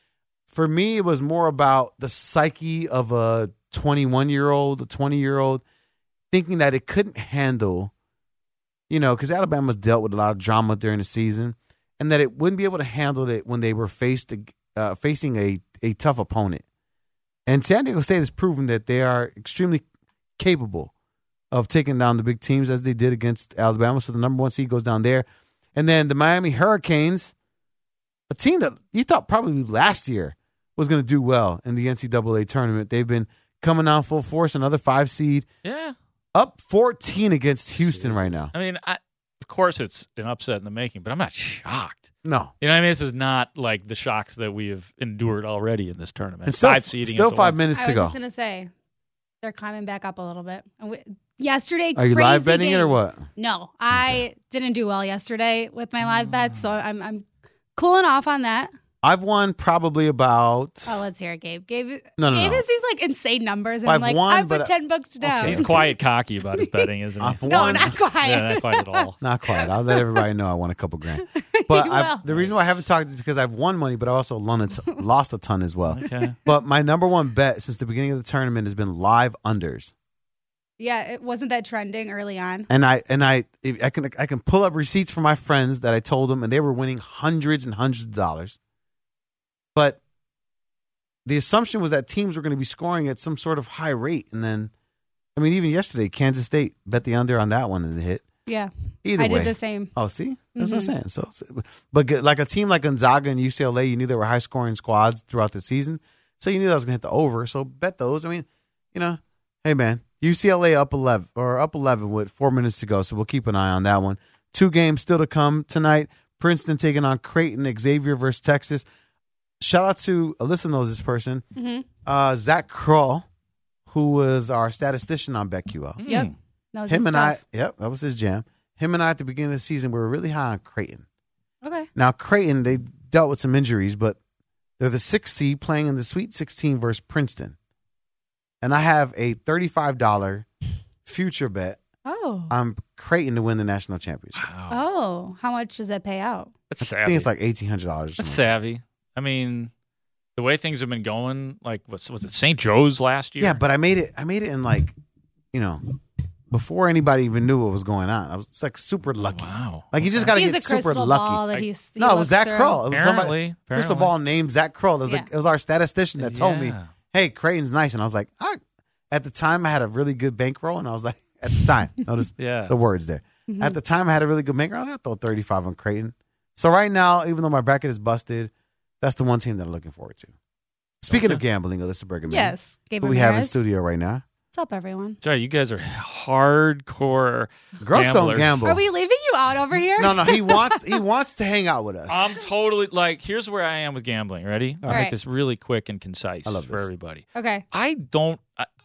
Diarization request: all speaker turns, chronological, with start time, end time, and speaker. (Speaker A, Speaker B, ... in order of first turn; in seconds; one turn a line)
Speaker A: 0.5-5.6
Speaker A: 6.3-7.9
Speaker A: 8.9-16.6
Speaker A: 17.4-19.8
Speaker A: 20.4-20.9
Speaker A: 21.5-27.3
Speaker A: 28.3-35.5
Speaker B: 35.6-36.0
Speaker A: 36.3-38.5
Speaker B: 37.8-42.1
Speaker A: 42.2-42.5
Speaker B: 42.6-47.6
Speaker A: 46.4-48.1
Speaker C: 47.7-48.7
Speaker C: 49.4-57.2
Speaker A: 52.0-53.2
Speaker A: 53.9-54.2
Speaker B: 56.1-56.6
Speaker C: 57.8-58.7
Speaker A: 59.0-61.0
Speaker C: 60.9-65.8
Speaker A: 62.2-62.6
Speaker A: 63.8-65.8
Speaker B: 65.4-69.2
Speaker C: 66.6-66.9
Speaker A: 67.2-67.9
Speaker C: 67.5-70.2
Speaker A: 69.2-79.9
Speaker C: 71.1-72.2
Speaker B: 72.3-72.7
Speaker B: 75.9-76.4
Speaker C: 80.8-82.7
Speaker A: 82.7-88.6
Speaker A: 89.7-90.0
Speaker A: 91.2-94.7
Speaker A: 95.3-98.2
Speaker C: 98.5-99.9
Speaker A: 99.0-118.8
Speaker C: 100.5-100.9
Speaker A: 119.6-121.4
Speaker C: 121.5-121.8
Speaker A: 122.0-123.2
Speaker A: 123.9-126.0
Speaker B: 126.0-126.3
Speaker C: 126.1-127.4
Speaker A: 126.9-131.0
Speaker C: 131.6-131.9
Speaker A: 131.9-134.2
Speaker A: 134.8-137.5
Speaker A: 138.6-140.4
Speaker A: 141.0-141.8
Speaker C: 142.0-142.5
Speaker A: 142.5-144.4
Speaker B: 144.3-144.8
Speaker C: 144.7-146.5
Speaker B: 146.7-147.3
Speaker A: 146.8-148.5
Speaker B: 148.2-149.7
Speaker B: 150.3-153.6
Speaker A: 153.4-154.9
Speaker A: 155.5-155.8
Speaker A: 156.5-161.4
Speaker B: 159.2-160.4
Speaker C: 160.3-162.8
Speaker A: 162.0-180.3
Speaker B: 162.9-164.1
Speaker B: 166.2-166.9
Speaker B: 172.4-172.7
Speaker C: 173.5-173.8
Speaker A: 181.0-184.2
Speaker B: 181.1-181.4
Speaker C: 182.3-183.6
Speaker C: 184.5-185.2
Speaker B: 185.2-188.6
Speaker A: 187.8-188.8
Speaker C: 188.6-190.9
Speaker A: 190.0-192.3
Speaker B: 192.1-198.7
Speaker C: 194.9-195.1
Speaker A: 196.4-196.9
Speaker C: 197.3-197.6